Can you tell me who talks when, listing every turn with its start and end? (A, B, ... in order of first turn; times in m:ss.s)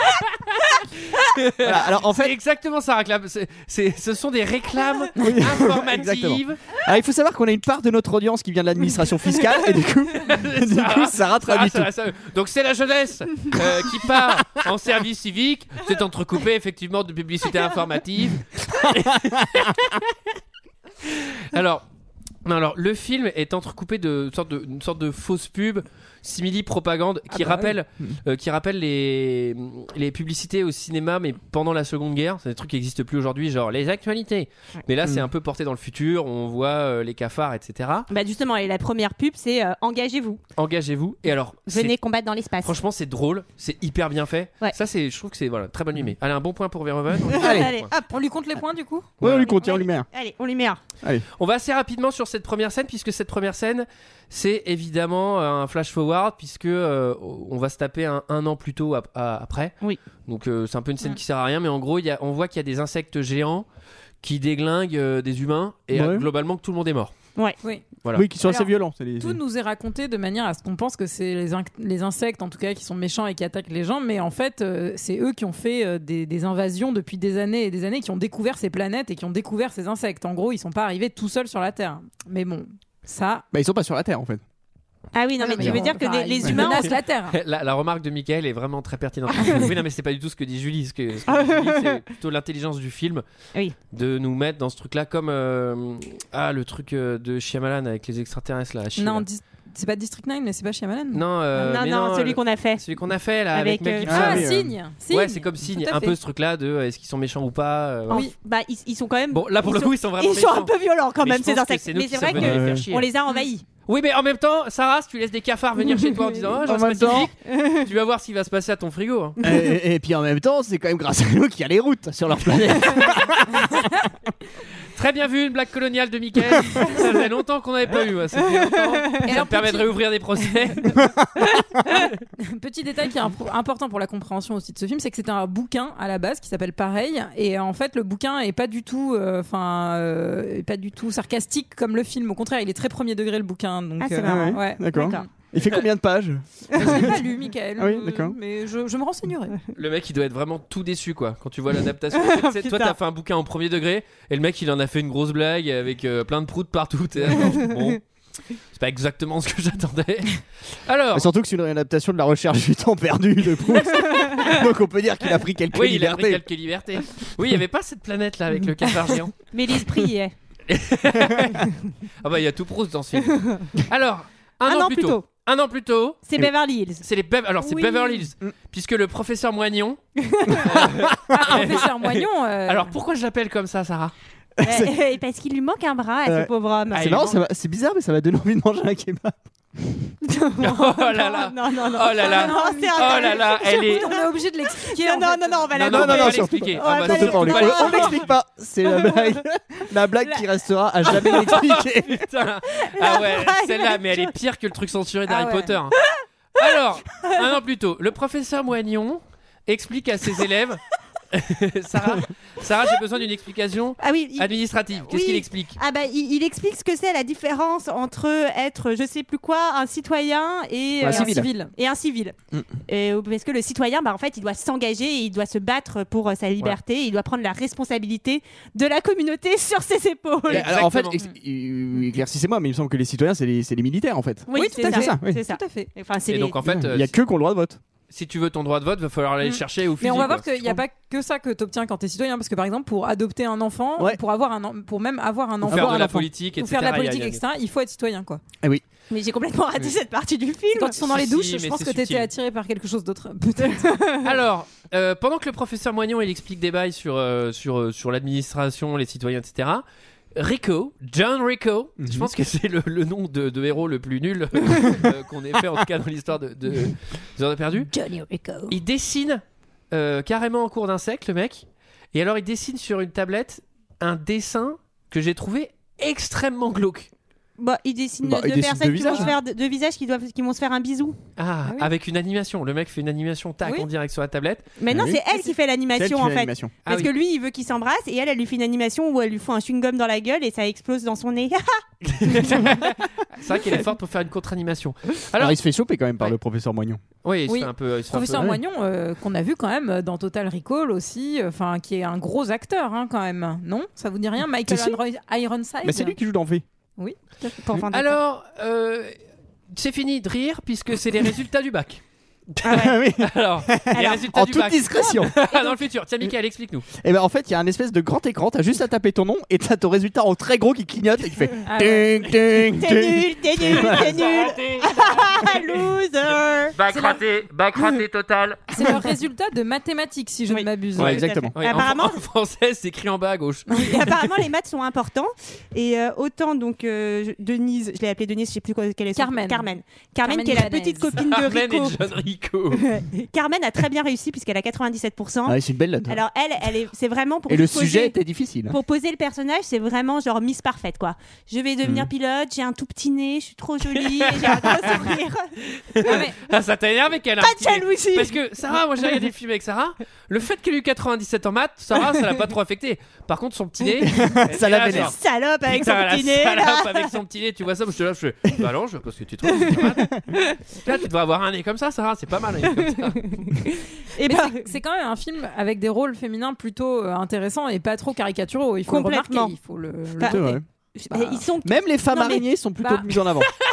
0:01.1-0:06.6 A
0:01.6-0:02.3 B
0:05.2-0:11.9 B
0:10.2-0:20.1 A
0:18.9-0:19.6 B
0:21.0-0:21.8 A
0:22.4-0:38.1 A
0:38.1-0:40.4 C
0:40.6-0:41.9 A
0:41.7-0:42.8 C
0:42.6-0:47.9 A
0:47.3-0:47.7 B
0:47.3-0:48.2 C
0:48.1-0:49.1 D
0:49.2-0:49.5 A
0:49.2-0:50.1 B
0:49.2-0:50.8 C
0:51.4-0:59.7 A
1:00.2-1:03.6 A
1:04.2-1:07.1 A
1:05.9-1:06.2 B
1:08.1-1:09.4 B
1:08.4-1:23.4 D
1:23.5-1:24.4 B
1:25.1-1:26.9 C
1:25.4-1:27.4 D
1:25.6-1:25.8 B
1:27.3-1:33.2 A
1:31.3-1:32.0 C
1:33.9-1:39.2 A
1:39.0-1:41.2 D
1:41.1-1:44.4 A
1:41.5-1:42.8 C
1:43.5-1:44.2 C
1:44.0-1:44.8 B
1:44.0-1:46.2 D
1:45.1-1:48.2 A
1:48.1-1:53.6 C
1:49.3-1:53.1 A
1:52.3-1:52.9 B
1:53.8-1:59.4 A
1:55.9-1:56.4 C
1:56.6-1:57.3 B
1:57.5-1:57.8 C
1:59.4-2:04.1 B
2:04.9-2:11.0 A
2:09.2-2:09.9 D
2:11.9-2:25.3 D
2:24.0-2:25.2 C
2:24.2-2:27.2 B
2:26.7-2:29.6 D
2:27.8-2:28.4 B
2:29.7-2:38.0 A
2:32.1-2:33.0 C
2:38.7-2:41.3 A
2:41.1-2:46.5 B
2:45.7-2:49.4 A
2:49.5-2:50.3 C
2:50.7-2:56.2 A
2:53.4-2:53.7 C
2:54.6-2:55.2 C
2:56.2-2:57.0 C
2:57.0-3:04.1 A
2:57.6-2:58.2 C
3:00.2-3:00.8 C
3:01.3-3:03.0 D
3:04.6-3:05.0 B
3:04.6-3:07.4 C
3:06.2-3:09.4 B
3:06.9-3:07.3 A
3:10.2-3:18.2 C
3:10.6-3:14.1 A
3:12.2-3:15.7 D
3:15.7-3:18.2 A
3:15.8-3:22.2 B
3:18.9-3:19.4 C
3:20.2-3:20.4 C
3:21.1-3:21.4 C
3:21.1-3:26.0 A
3:22.8-3:24.3 C
3:25.3-3:25.7 D
3:26.6-3:30.8 A
3:31.3-3:35.8 A
3:34.0-3:42.3 C
3:41.0-3:41.5 B
3:41.0-3:41.7 D
3:42.9-3:50.8 C
3:50.5-3:51.2 A
3:50.5-3:55.4 B
3:54.5-3:56.6 C
3:54.5-3:55.9 D
3:56.3-3:57.1 A
3:56.6-3:57.8 B
3:58.1-4:00.5 A
3:59.4-4:08.4 D
4:00.4-4:00.8 B
4:05.6-4:06.2 B
4:05.7-4:07.4 A
4:09.1-4:11.0 C
4:10.7-4:14.2 D
4:11.0-4:12.3 A
4:14.2-4:19.8 A
4:20.4-4:27.9 A
4:22.0-4:22.3 B
4:27.9-4:28.8 D
4:28.7-4:37.1 A
4:37.6-4:41.2 C
4:38.2-4:39.3 B
4:39.1-4:39.4 D
4:41.4-4:44.7 A
4:44.8-4:51.8 C
4:44.9-4:45.2 B
4:45.9-4:46.7 B
4:46.8-4:47.1 A
4:52.1-4:55.6 A
4:52.3-4:52.8 C
4:55.4-4:57.0 B
4:57.2-4:58.5 A
4:57.5-5:06.2 D
4:58.2-4:58.6 B
5:04.7-5:05.0 B
5:05.8-5:06.6 B
5:07.0-5:07.6 D
5:07.6-5:08.2 C
5:07.9-5:09.1 A
5:09.7-5:16.9 A
5:12.6-5:13.0 C
5:12.7-5:15.4 B
5:13.9-5:14.2 C
5:15.5-5:15.8 C
5:17.0-5:24.3 B
5:21.7-5:22.4 D
5:22.7-5:26.8 C
5:26.8-5:28.6 A
5:26.9-5:27.2 D
5:28.7-5:31.3 D
5:31.0-5:31.5 B
5:31.0-5:33.7 A
5:31.2-5:32.2 C
5:33.7-5:42.0 C
5:33.7-5:34.2 D
5:39.2-5:39.7 D
5:40.2-5:41.2 D
5:41.2-5:42.8 A
5:42.7-5:45.6 C
5:45.4-5:46.2 B
5:46.1-5:48.1 C
5:47.5-5:48.8 B
5:48.7-5:55.4 C
5:51.8-5:52.1 B
5:53.9-5:55.1 A
5:55.6-6:05.2 A
5:56.0-5:56.4 D
5:57.4-5:58.4 C
6:04.0-6:05.2 B
6:04.9-6:07.1 C
6:05.7-6:10.1 A
6:10.7-6:13.3 A
6:13.0-6:14.7 C
6:14.2-6:20.6 D
6:18.9-6:19.5 C
6:20.2-6:22.4 C
6:20.2-6:23.5 B
6:22.8-6:23.2 D